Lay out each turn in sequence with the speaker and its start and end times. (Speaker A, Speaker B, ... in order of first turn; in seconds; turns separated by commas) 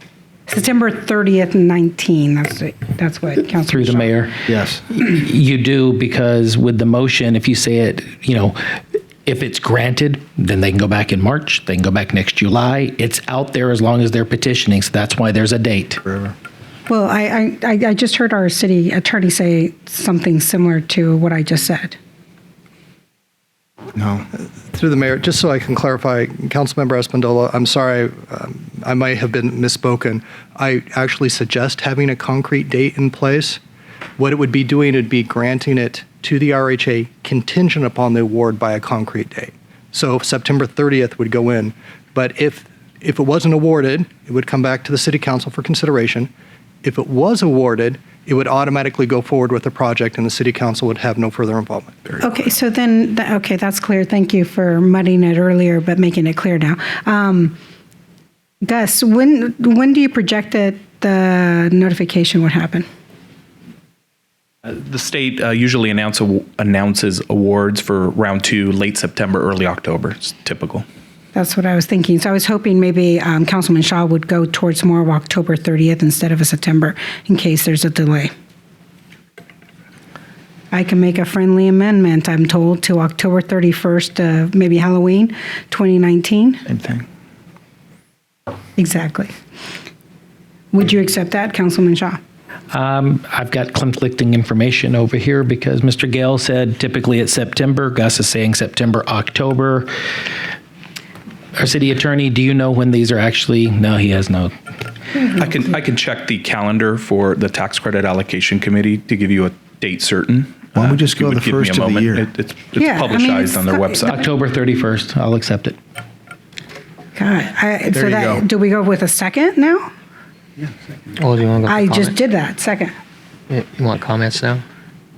Speaker A: 0.5-4.2, Speaker B: 3.6-16.0, Speaker C: 4.5-4.8, Speaker C: 16.1-16.3, Speaker A: 16.9-22.0, Speaker C: 23.9-24.2, Speaker D: 24.7-33.6, Speaker D: 34.2-46.3, Speaker D: 46.8-52.2, Speaker A: 52.2-57.6, Speaker A: 58.6-62.9, Speaker E: 64.7-70.8, Speaker A: 71.3-78.3, Speaker A: 80.7-86.6, Speaker C: 86.7-87.0, Speaker A: 88.8-89.3, Speaker A: 90.7-92.2, Speaker B: 92.7-99.9, Speaker B: 101.5-104.5, Speaker E: 105.2-114.2, Speaker C: 110.8-112.3, Speaker A: 112.8-114.1, Speaker B: 114.1-115.8, Speaker A: 117.1-119.9, Speaker C: 117.9-118.4, Speaker F: 121.1-122.2, Speaker A: 121.7-122.9, Speaker F: 123.5-124.6